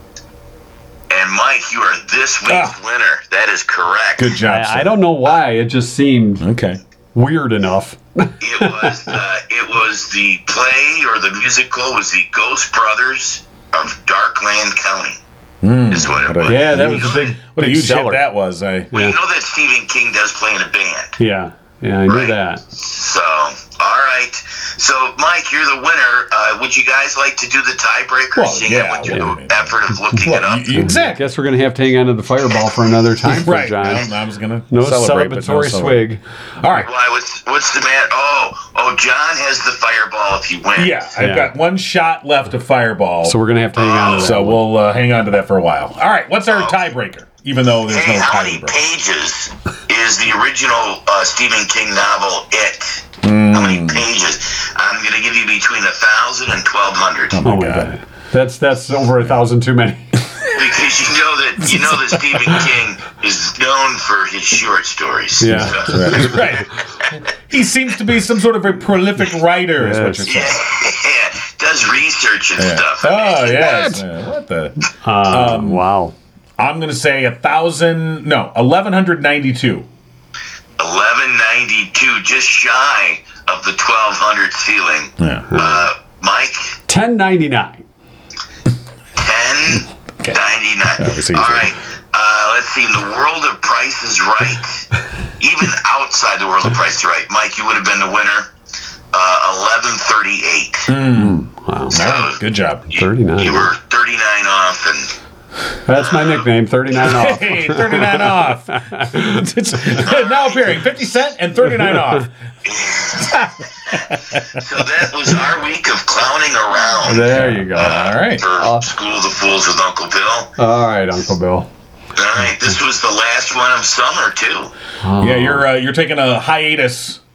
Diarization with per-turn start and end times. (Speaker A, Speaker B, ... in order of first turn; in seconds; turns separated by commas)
Speaker A: 1.1-4.3, Speaker B: 2.5-2.8, Speaker B: 4.2-5.0, Speaker C: 4.4-6.5, Speaker B: 6.4-6.8, Speaker C: 7.1-9.1, Speaker A: 8.4-15.2, Speaker B: 15.6-18.9, Speaker A: 15.9-17.3, Speaker C: 16.4-18.2, Speaker C: 18.9-19.2, Speaker A: 18.9-21.2, Speaker C: 21.2-22.6, Speaker A: 22.1-30.9, Speaker B: 28.3-31.2, Speaker C: 29.0-29.4, Speaker C: 30.7-34.1, Speaker B: 33.2-36.0, Speaker C: 34.7-36.2, Speaker B: 36.6-36.9, Speaker A: 36.7-41.0, Speaker B: 40.8-43.4, Speaker C: 41.2-41.5, Speaker C: 43.2-44.6, Speaker A: 43.7-44.3, Speaker B: 44.2-48.8, Speaker A: 47.9-57.4, Speaker B: 53.2-54.0, Speaker B: 57.3-57.9, Speaker C: 57.4-60.3, Speaker A: 60.5-66.4, Speaker C: 65.4-66.4, Speaker B: 65.6-70.6, Speaker C: 69.8-70.5, Speaker A: 70.2-74.0, Speaker B: 72.6-75.8, Speaker C: 73.6-74.0, Speaker C: 74.8-76.1, Speaker B: 76.6-79.9, Speaker A: 80.8-86.8, Speaker B: 85.2-85.5, Speaker C: 85.5-85.9, Speaker C: 86.9-87.8, Speaker A: 89.1-94.8, Speaker B: 91.0-91.7, Speaker A: 95.4-98.5, Speaker A: 99.1-100.9, Speaker B: 100.9-101.4, Speaker C: 101.1-102.0, Speaker B: 101.9-102.9, Speaker A: 101.9-105.1, Speaker C: 102.9-103.7, Speaker C: 105.8-109.4, Speaker A: 106.0-106.4, Speaker B: 106.9-112.3, Speaker A: 110.0-110.7, Speaker A: 112.6-120.5, Speaker B: 113.2-114.6, Speaker C: 117.0-118.0, Speaker B: 117.3-118.5, Speaker C: 118.5-118.9, Speaker C: 120.6-121.7, Speaker A: 122.1-124.7, Speaker C: 125.0-125.7, Speaker B: 125.2-127.2